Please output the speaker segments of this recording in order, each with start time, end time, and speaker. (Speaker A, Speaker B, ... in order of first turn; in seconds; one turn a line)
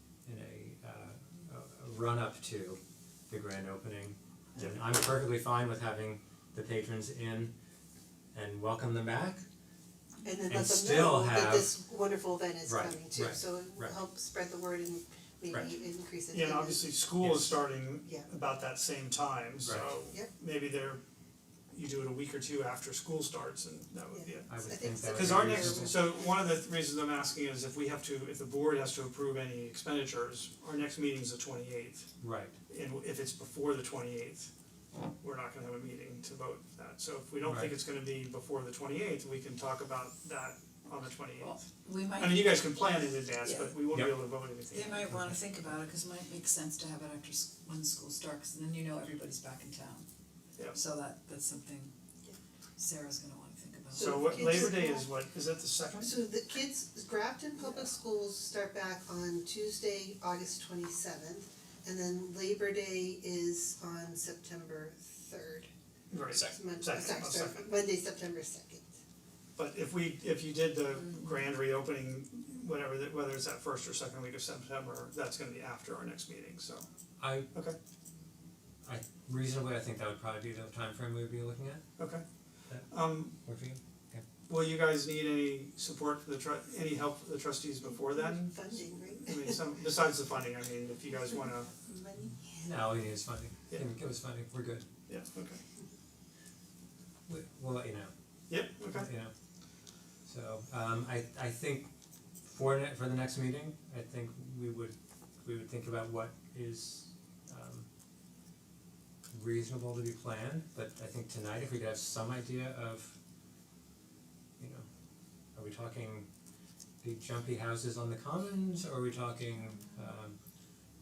Speaker A: 0.2-2.8
Speaker A: 3.3-7.5
Speaker B: 4.5-4.8
Speaker A: 8.3-9.4
Speaker C: 10.2-16.9
Speaker A: 10.5-11.7
Speaker A: 12.7-14.0
Speaker B: 16.3-21.0
Speaker A: 17.2-17.6
Speaker A: 19.6-19.9
Speaker B: 21.7-24.5
Speaker C: 24.1-26.1
Speaker A: 24.4-25.9
Speaker B: 25.1-32.1
Speaker A: 32.2-32.5
Speaker B: 32.7-34.5
Speaker B: 35.2-45.0
Speaker A: 37.4-37.7
Speaker D: 41.4-42.7
Speaker C: 43.4-43.7
Speaker A: 43.9-44.2
Speaker D: 44.7-50.0
Speaker D: 50.7-51.9
Speaker D: 52.8-54.5
Speaker C: 53.9-55.1
Speaker B: 53.9-56.2
Speaker C: 55.9-65.7
Speaker B: 66.1-67.7
Speaker C: 66.4-68.9
Speaker B: 69.5-76.8
Speaker A: 77.2-77.5
Speaker B: 77.5-77.8
Speaker A: 78.8-81.8
Speaker B: 82.0-82.2
Speaker B: 82.9-83.3
Speaker A: 83.4-84.2
Speaker B: 84.5-91.7
Speaker C: 87.9-89.7
Speaker C: 91.8-92.7
Speaker A: 92.6-94.8
Speaker B: 95.1-95.6
Speaker A: 97.3-98.1
Speaker B: 98.5-99.1
Speaker A: 98.9-99.3
Speaker A: 100.2-101.9
Speaker A: 102.4-107.9
Speaker A: 109.3-113.1
Speaker A: 114.6-114.8
Speaker A: 115.5-116.3
Speaker A: 117.0-120.3